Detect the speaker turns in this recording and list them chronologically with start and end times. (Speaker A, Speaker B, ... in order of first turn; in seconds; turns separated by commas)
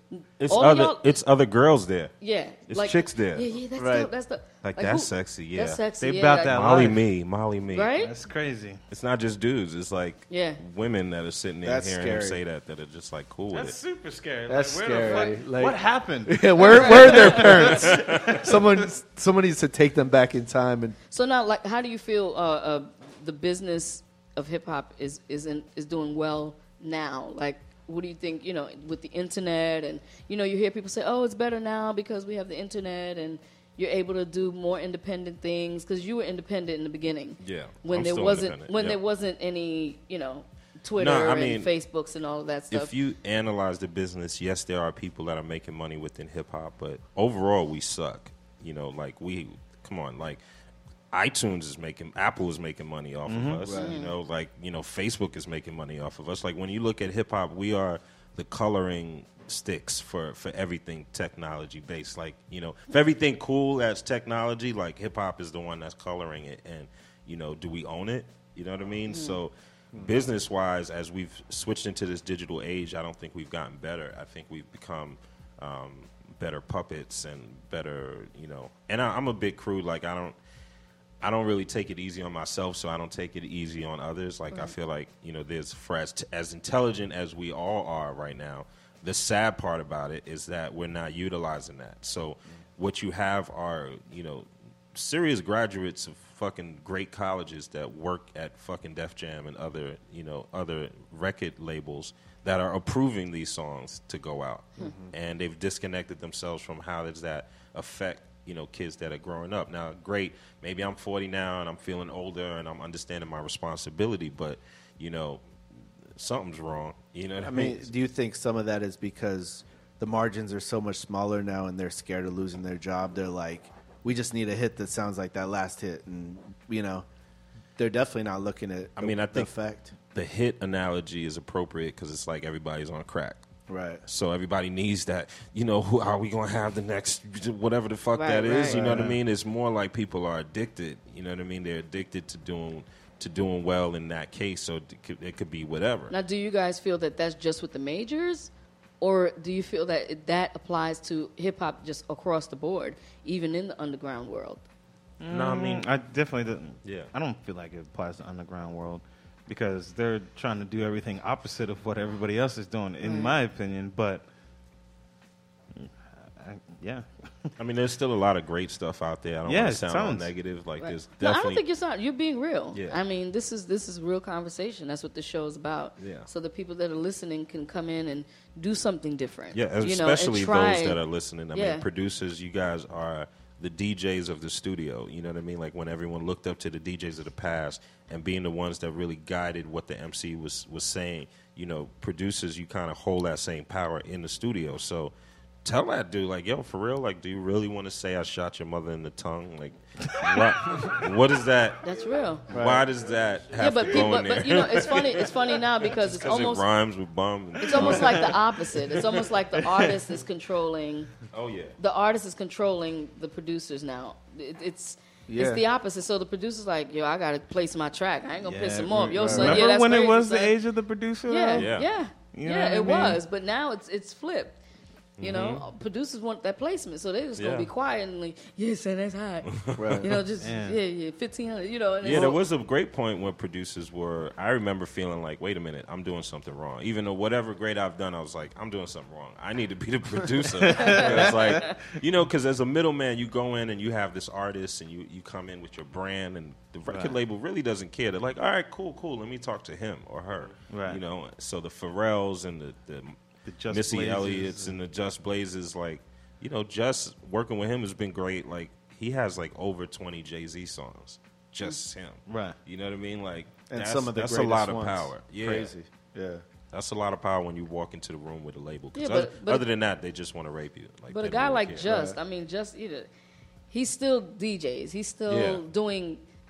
Speaker A: 0.4-2.1, Speaker B: 0.4-1.2, Speaker B: 2.2-6.8, Speaker A: 2.7-3.5, Speaker C: 3.8-4.1, Speaker A: 4.6-5.8, Speaker D: 6.0-7.0, Speaker A: 6.5-7.9, Speaker B: 7.7-8.1, Speaker D: 8.0-8.8, Speaker A: 8.9-13.8, Speaker B: 10.3-10.6, Speaker C: 11.6-12.4, Speaker D: 13.5-18.6, Speaker C: 14.5-21.0, Speaker B: 15.1-15.3, Speaker B: 16.6-17.4, Speaker A: 17.7-18.4, Speaker B: 21.1-42.9, Speaker A: 37.4-39.0, Speaker A: 41.0-41.7, Speaker A: 42.7-50.4, Speaker A: 51.1-80.4, Speaker D: 53.3-53.6, Speaker C: 53.6-54.0, Speaker B: 53.7-54.1, Speaker B: 69.1-69.4, Speaker A: 81.2-115.4, Speaker C: 104.8-105.1, Speaker A: 116.2-117.9, Speaker C: 117.4-127.1, Speaker C: 127.8-129.9, Speaker A: 129.0-129.5, Speaker A: 130.1-133.4, Speaker C: 133.7-134.0, Speaker A: 134.1-146.1, Speaker B: 138.2-138.8, Speaker C: 138.5-139.2, Speaker B: 146.1-148.5, Speaker B: 149.0-154.6, Speaker D: 155.2-164.2, Speaker A: 155.3-155.9, Speaker A: 156.8-157.1, Speaker B: 163.0-163.3, Speaker D: 165.8-167.5, Speaker A: 167.6-171.6, Speaker D: 169.5-170.3, Speaker B: 170.8-181.0, Speaker A: 172.7-173.0, Speaker A: 176.0-176.3, Speaker A: 179.5-195.1, Speaker B: 181.5-181.9, Speaker A: 195.7-201.9, Speaker B: 201.8-202.5, Speaker A: 202.5-208.4, Speaker C: 202.5-202.9, Speaker B: 203.6-206.7, Speaker B: 207.6-211.1, Speaker D: 207.7-208.3, Speaker A: 211.3-211.7, Speaker B: 211.8-220.6, Speaker C: 215.3-215.6, Speaker D: 218.4-221.7, Speaker C: 219.1-219.6, Speaker B: 221.3-224.6, Speaker A: 221.6-221.9, Speaker D: 222.3-223.2, Speaker A: 225.2-225.6, Speaker B: 225.2-232.4, Speaker A: 227.4-227.7, Speaker A: 229.5-230.2, Speaker C: 229.8-230.1, Speaker D: 230.4-230.8, Speaker A: 232.0-253.2, Speaker D: 240.6-241.8, Speaker B: 240.7-241.7, Speaker D: 246.9-247.2, Speaker D: 250.7-251.0, Speaker D: 253.5-254.8, Speaker A: 253.7-265.7, Speaker D: 262.3-262.6, Speaker C: 263.7-266.4, Speaker A: 266.7-271.9, Speaker B: 268.9-269.7, Speaker B: 271.1-273.1, Speaker C: 271.8-272.2, Speaker B: 273.7-276.2, Speaker A: 275.3-275.6